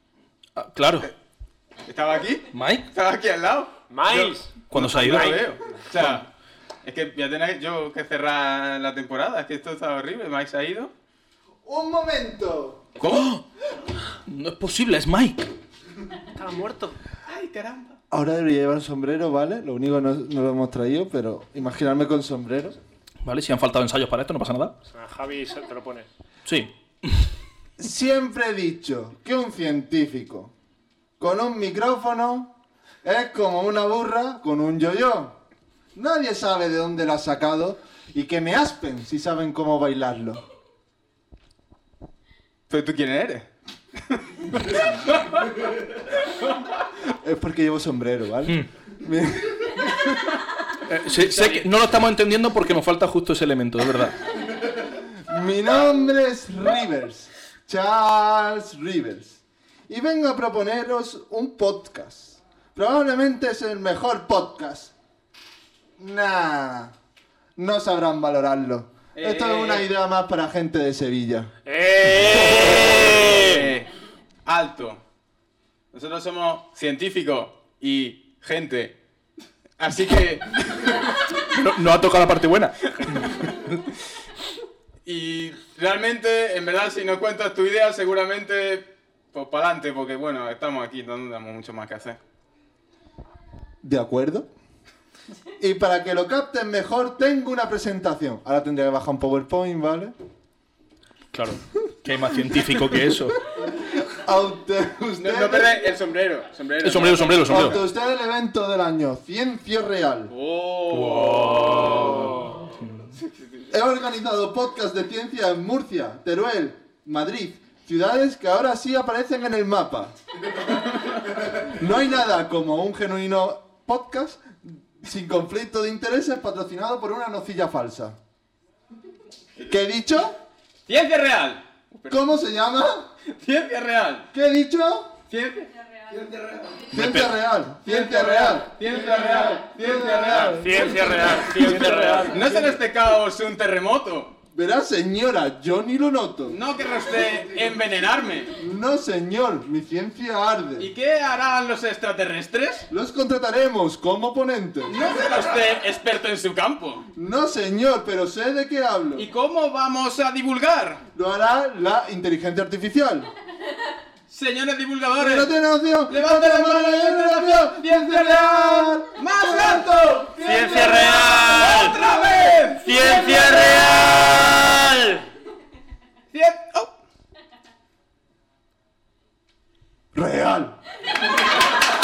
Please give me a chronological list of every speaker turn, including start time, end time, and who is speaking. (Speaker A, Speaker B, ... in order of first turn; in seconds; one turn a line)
Speaker A: 0.6-1.1
Speaker B: 1.9-6.3
Speaker A: 2.5-2.9
Speaker C: 3.9-5.4
Speaker A: 4.7-5.4
Speaker B: 6.8-10.9
Speaker D: 11.6-12.8
Speaker B: 13.0-13.4
Speaker A: 13.1-13.4
Speaker A: 14.2-15.4
Speaker C: 16.3-17.0
Speaker B: 17.3-18.0
Speaker D: 18.1-22.8
Speaker A: 23.2-24.7
Speaker C: 24.9-26.1
Speaker A: 26.4-27.2
Speaker D: 27.8-30.5
Speaker D: 31.2-35.4
Speaker D: 35.9-40.4
Speaker B: 42.7-45.6
Speaker B: 46.2-46.5
Speaker D: 47.1-50.0
Speaker A: 50.9-54.2
Speaker B: 51.3-51.7
Speaker D: 54.8-64.9
Speaker D: 66.0-66.9
Speaker D: 67.6-71.5
Speaker B: 69.2-69.9
Speaker C: 71.7-73.7
Speaker B: 72.3-73.9
Speaker B: 74.5-75.0
Speaker B: 75.9-79.0
Speaker B: 79.8-81.2
Speaker A: 81.5-83.8
Speaker B: 83.2-83.5
Speaker B: 85.0-92.2
Speaker D: 93.8-94.5
Speaker D: 95.6-100.1
Speaker A: 101.3-103.4
Speaker D: 103.6-105.7
Speaker B: 105.2-107.8
Speaker A: 106.8-107.8
Speaker D: 107.5-110.3
Speaker B: 110.3-112.4
Speaker A: 111.1-113.0
Speaker C: 112.0-112.3
Speaker B: 113.2-113.7
Speaker D: 113.7-120.1
Speaker D: 121.4-128.2
Speaker D: 129.7-130.3
Speaker B: 130.9-132.2
Speaker D: 132.1-133.1
Speaker B: 133.2-134.3
Speaker D: 134.3-135.2
Speaker B: 135.3-137.0
Speaker D: 136.9-138.7
Speaker A: 136.9-137.3
Speaker B: 137.8-144.3
Speaker D: 139.9-141.1
Speaker C: 140.4-142.5
Speaker D: 142.4-142.7
Speaker D: 144.5-146.6
Speaker B: 146.5-148.5
Speaker D: 148.6-150.9
Speaker B: 150.8-152.9
Speaker D: 152.9-155.0
Speaker B: 154.9-157.1
Speaker D: 157.1-159.3
Speaker B: 159.2-161.0
Speaker D: 161.1-163.3
Speaker B: 164.3-165.5
Speaker D: 165.2-171.4
Speaker B: 166.1-174.7
Speaker C: 170.4-172.0
Speaker C: 172.8-175.2
Speaker B: 176.3-176.9
Speaker D: 180.1-180.8